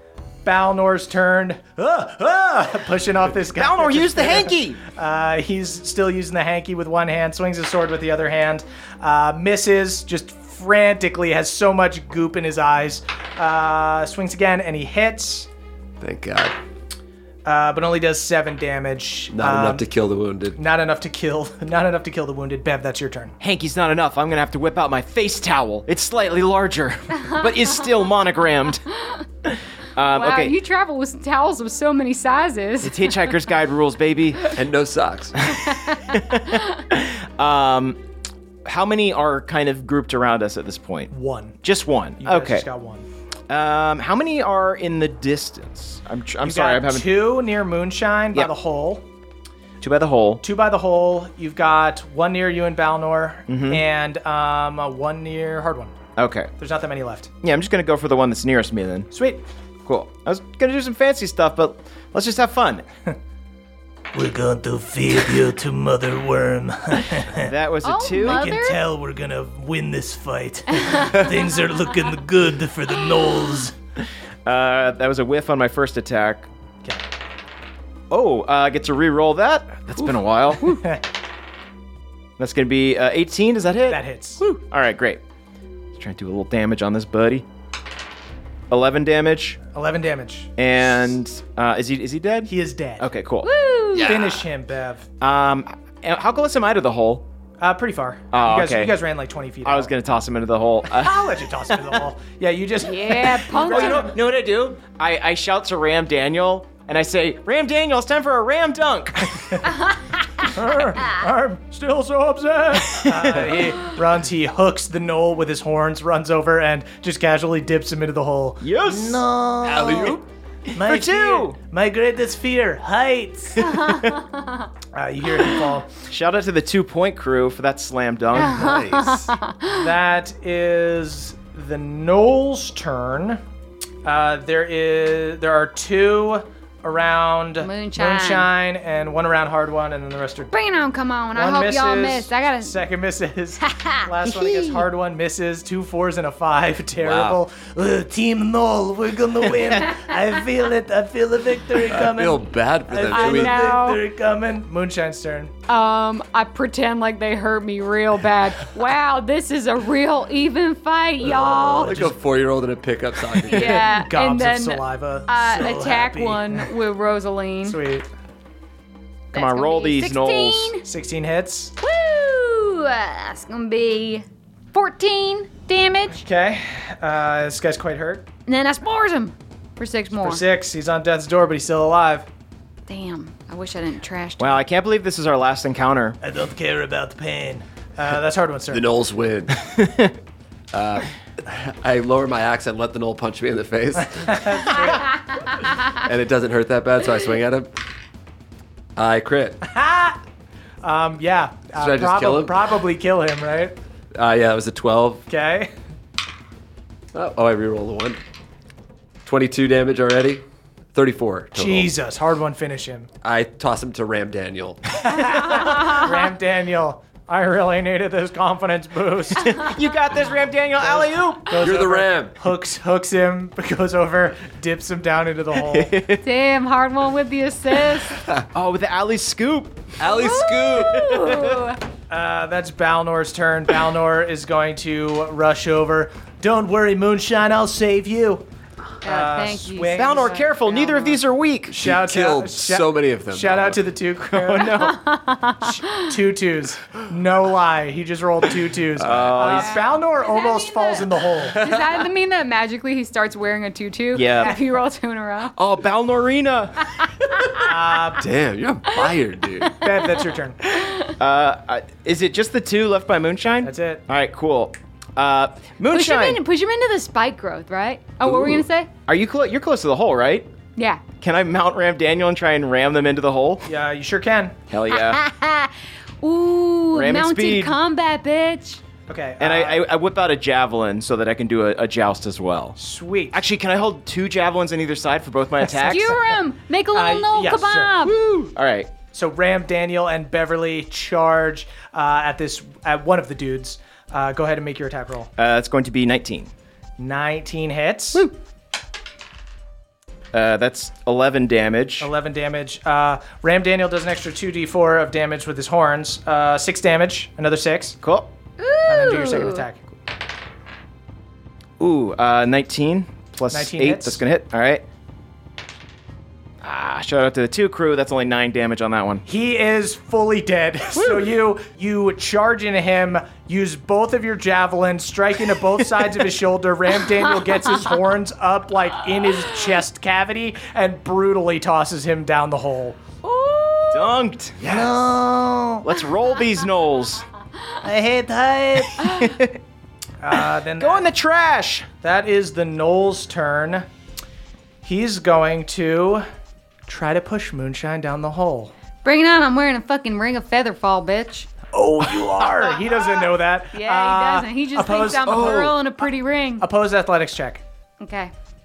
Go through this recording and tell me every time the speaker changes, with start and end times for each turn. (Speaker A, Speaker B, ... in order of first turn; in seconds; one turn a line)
Speaker A: 0.4-15.5
Speaker B: 3.6-4.8
Speaker C: 16.0-16.5
Speaker A: 17.4-19.9
Speaker C: 19.3-20.6
Speaker A: 20.6-23.3
Speaker B: 23.4-28.8
Speaker B: 29.9-30.6
Speaker D: 30.1-33.3
Speaker B: 32.8-34.4
Speaker C: 34.5-35.5
Speaker D: 35.5-36.0
Speaker B: 36.1-38.0
Speaker B: 38.6-41.1
Speaker A: 41.1-41.6
Speaker B: 41.6-42.6
Speaker A: 42.2-43.0
Speaker B: 43.5-47.0
Speaker A: 46.4-49.0
Speaker B: 49.8-50.4
Speaker A: 50.4-55.9
Speaker B: 53.5-53.8
Speaker B: 56.2-56.5
Speaker A: 56.6-57.3
Speaker B: 57.4-59.1
Speaker A: 59.1-59.4
Speaker B: 59.9-62.8
Speaker E: 64.1-67.5
Speaker B: 67.5-68.4
Speaker D: 67.8-68.8
Speaker E: 68.3-73.7
Speaker D: 70.8-71.3
Speaker B: 74.4-76.5
Speaker B: 78.1-80.7
Speaker A: 80.6-81.0
Speaker B: 82.4-84.0
Speaker A: 83.9-84.5
Speaker B: 84.6-85.2
Speaker B: 85.9-87.4
Speaker B: 88.7-89.6
Speaker A: 89.7-90.5
Speaker B: 90.6-92.5
Speaker A: 92.5-93.1
Speaker B: 93.0-93.5
Speaker D: 93.4-94.2
Speaker C: 93.9-94.4
Speaker A: 94.0-95.0
Speaker B: 95.2-97.2
Speaker A: 97.6-99.9
Speaker B: 98.3-98.9
Speaker B: 99.6-101.1
Speaker A: 100.9-104.2
Speaker D: 102.8-104.1
Speaker B: 103.7-109.3
Speaker A: 109.4-109.8
Speaker A: 110.4-119.0
Speaker B: 118.6-119.2
Speaker E: 119.1-120.2
Speaker C: 119.6-120.2
Speaker A: 119.6-120.1
Speaker A: 120.8-122.5
Speaker B: 120.8-121.5
Speaker E: 121.7-123.5
Speaker A: 123.4-123.8
Speaker D: 123.7-124.5
Speaker A: 124.9-125.9
Speaker B: 126.1-128.6
Speaker D: 128.3-129.8
Speaker C: 128.3-129.3
Speaker A: 129.7-133.4
Speaker A: 134.0-140.5
Speaker D: 137.6-138.5
Speaker D: 140.5-142.8
Speaker A: 141.3-147.8
Speaker D: 143.6-144.1
Speaker C: 147.0-147.4
Speaker E: 147.7-152.3
Speaker A: 149.5-150.0
Speaker C: 151.9-153.8
Speaker A: 152.9-155.5
Speaker D: 153.1-154.0
Speaker E: 153.7-154.5
Speaker D: 155.7-161.9
Speaker A: 161.2-162.2
Speaker C: 161.4-163.9
Speaker A: 163.3-166.7
Speaker D: 163.5-167.8
Speaker A: 167.6-168.1
Speaker B: 169.3-170.7
Speaker D: 169.3-170.8
Speaker A: 170.8-171.7
Speaker D: 171.8-176.2
Speaker A: 176.1-178.3
Speaker D: 178.4-180.4
Speaker A: 180.1-182.3
Speaker D: 182.9-184.7
Speaker B: 184.4-186.2
Speaker E: 186.2-187.6
Speaker A: 187.9-188.8
Speaker C: 188.7-189.7
Speaker C: 190.7-194.7
Speaker A: 194.0-195.2
Speaker C: 195.9-197.7
Speaker C: 198.9-199.6
Speaker A: 199.6-200.2
Speaker A: 200.8-203.7
Speaker C: 201.8-202.7
Speaker C: 204.1-205.2
Speaker A: 205.3-205.7
Speaker C: 207.1-208.2
Speaker C: 209.2-210.4
Speaker C: 210.9-211.9
Speaker A: 211.5-213.1
Speaker C: 213.2-214.9
Speaker A: 214.9-219.7
Speaker B: 219.4-221.5
Speaker A: 220.8-226.0
Speaker C: 221.6-222.4
Speaker B: 225.7-226.0
Speaker D: 226.1-228.2
Speaker B: 228.5-229.8
Speaker C: 230.0-231.1
Speaker D: 230.0-231.8
Speaker A: 232.1-238.5
Speaker D: 239.0-241.2
Speaker A: 239.0-240.4
Speaker B: 239.9-241.7
Speaker A: 241.7-245.0
Speaker C: 241.8-243.9
Speaker D: 244.6-246.1
Speaker A: 245.6-251.6
Speaker C: 248.9-249.5
Speaker B: 249.1-249.7
Speaker D: 249.4-255.6
Speaker B: 254.1-254.6
Speaker B: 255.6-256.8
Speaker A: 257.6-258.3
Speaker C: 258.2-259.7
Speaker D: 259.6-260.0
Speaker A: 259.8-260.6
Speaker D: 260.7-261.1
Speaker B: 261.2-266.4
Speaker A: 263.6-264.0
Speaker D: 265.9-268.9
Speaker C: 268.2-268.6
Speaker B: 269.1-270.5
Speaker D: 270.8-271.0
Speaker B: 271.2-273.6
Speaker A: 273.6-274.6
Speaker B: 274.7-275.2
Speaker D: 274.9-278.8
Speaker B: 276.9-277.8
Speaker A: 279.1-279.9
Speaker B: 279.4-282.7
Speaker A: 282.8-283.4
Speaker B: 283.3-286.1
Speaker A: 285.6-286.2
Speaker D: 285.8-288.2
Speaker A: 286.9-288.1
Speaker B: 288.2-288.9
Speaker A: 289.0-295.3
Speaker B: 295.4-296.5
Speaker A: 297.0-298.3
Speaker B: 300.3-302.1
Speaker A: 302.0-308.0
Speaker D: 308.6-309.6
Speaker A: 308.9-309.9
Speaker B: 311.8-314.8
Speaker A: 313.5-314.2
Speaker B: 316.6-319.2
Speaker A: 319.2-333.0
Speaker B: 321.0-321.2
Speaker D: 333.2-334.2
Speaker B: 333.9-334.6
Speaker A: 334.6-334.9
Speaker E: 334.7-335.8
Speaker B: 335.8-337.2
Speaker A: 337.8-339.1
Speaker B: 339.0-339.5
Speaker A: 340.2-341.1
Speaker B: 340.8-341.9
Speaker A: 341.9-343.9
Speaker A: 344.8-346.2
Speaker A: 346.9-348.7
Speaker D: 349.0-351.5
Speaker A: 351.7-355.8
Speaker D: 353.7-356.7
Speaker C: 355.3-355.7
Speaker A: 356.6-357.6
Speaker D: 358.0-358.3